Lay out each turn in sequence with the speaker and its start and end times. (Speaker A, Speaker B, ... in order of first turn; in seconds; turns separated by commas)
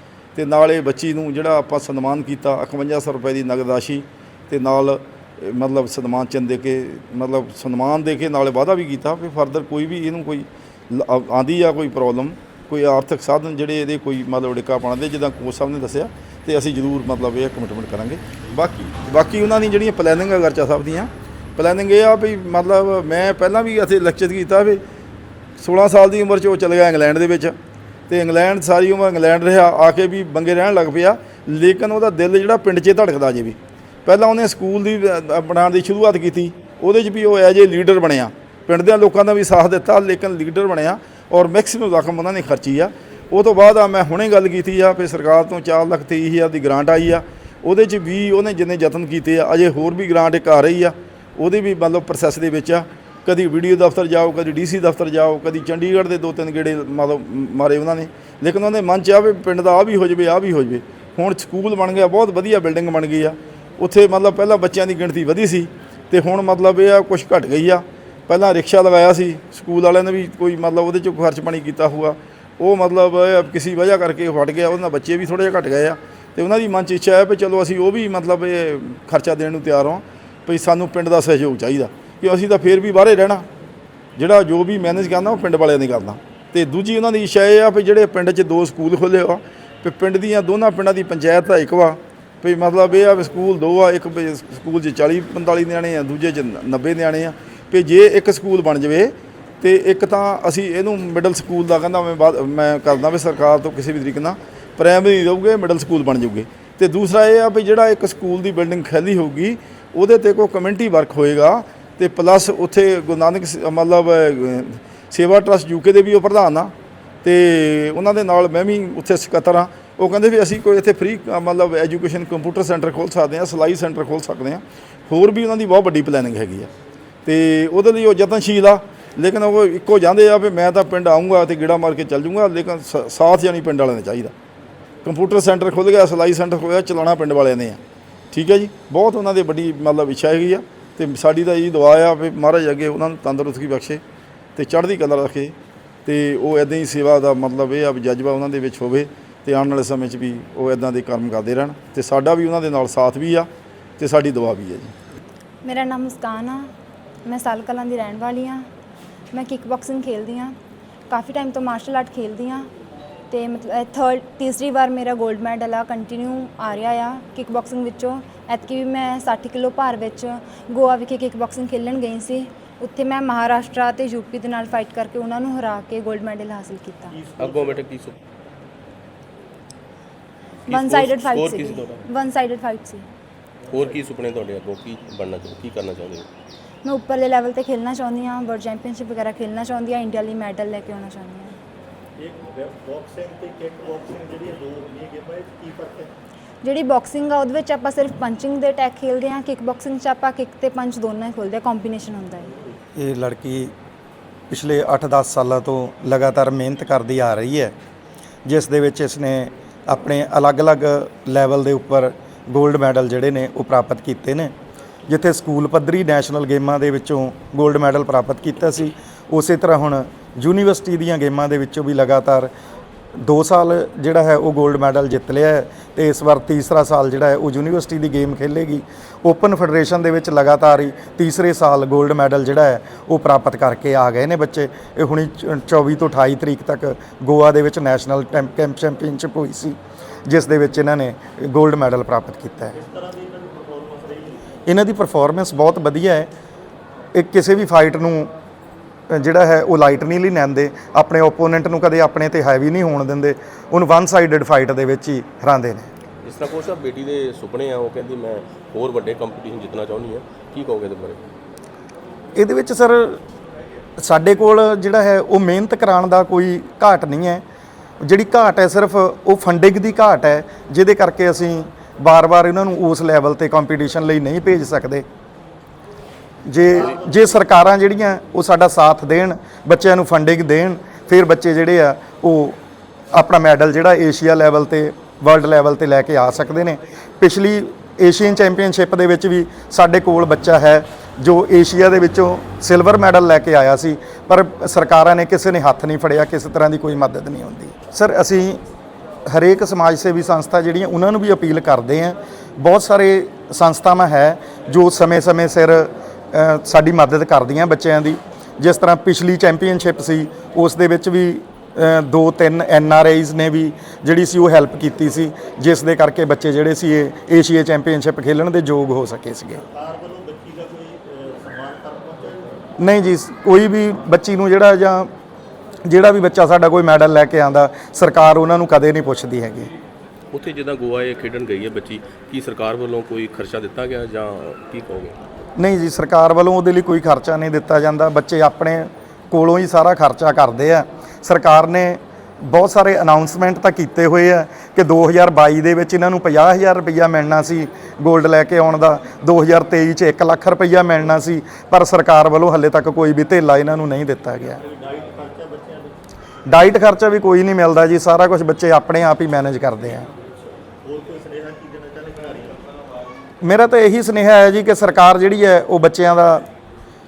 Speaker A: 0.3-24.8, Speaker A: 25.6-27.6, Speaker A: 28.1-83.5, Speaker A: 84.2-126.7, Speaker A: 127.2-134.3, Speaker A: 135.0-137.8, Speaker A: 138.3-144.0, Speaker A: 144.6-145.5, Speaker A: 146.1-154.9, Speaker B: 155.6-156.7, Speaker B: 157.3-158.6, Speaker B: 159.3-160.5, Speaker B: 161.1-162.7, Speaker B: 163.3-177.2, Speaker C: 177.1-177.8, Speaker D: 177.4-178.2, Speaker B: 180.7-183.0, Speaker D: 180.7-182.0, Speaker D: 183.7-186.3, Speaker B: 186.8-191.5, Speaker C: 192.2-196.1, Speaker B: 196.6-202.5, Speaker E: 203.0-203.7, Speaker E: 204.5-207.7, Speaker E: 208.4-214.5, Speaker E: 215.1-222.5, Speaker E: 223.2-242.7, Speaker C: 242.8-244.4, Speaker E: 244.7-246.3, Speaker E: 247.1-248.3, Speaker E: 249.1-255.9, Speaker D: 256.2-261.2, Speaker E: 262.4-263.2, Speaker E: 264.0-267.4, Speaker E: 268.0-275.0, Speaker E: 276.5-282.6, Speaker C: 276.8-277.3, Speaker E: 283.1-298.6, Speaker E: 299.3-319.6, Speaker C: 319.7-322.6, Speaker E: 322.8-325.1, Speaker E: 325.9-329.7, Speaker D: 330.3-335.1, Speaker E: 335.6-354.6, Speaker C: 354.6-355.9, Speaker E: 356.5-360.1, Speaker C: 360.8-362.6, Speaker E: 363.4-366.4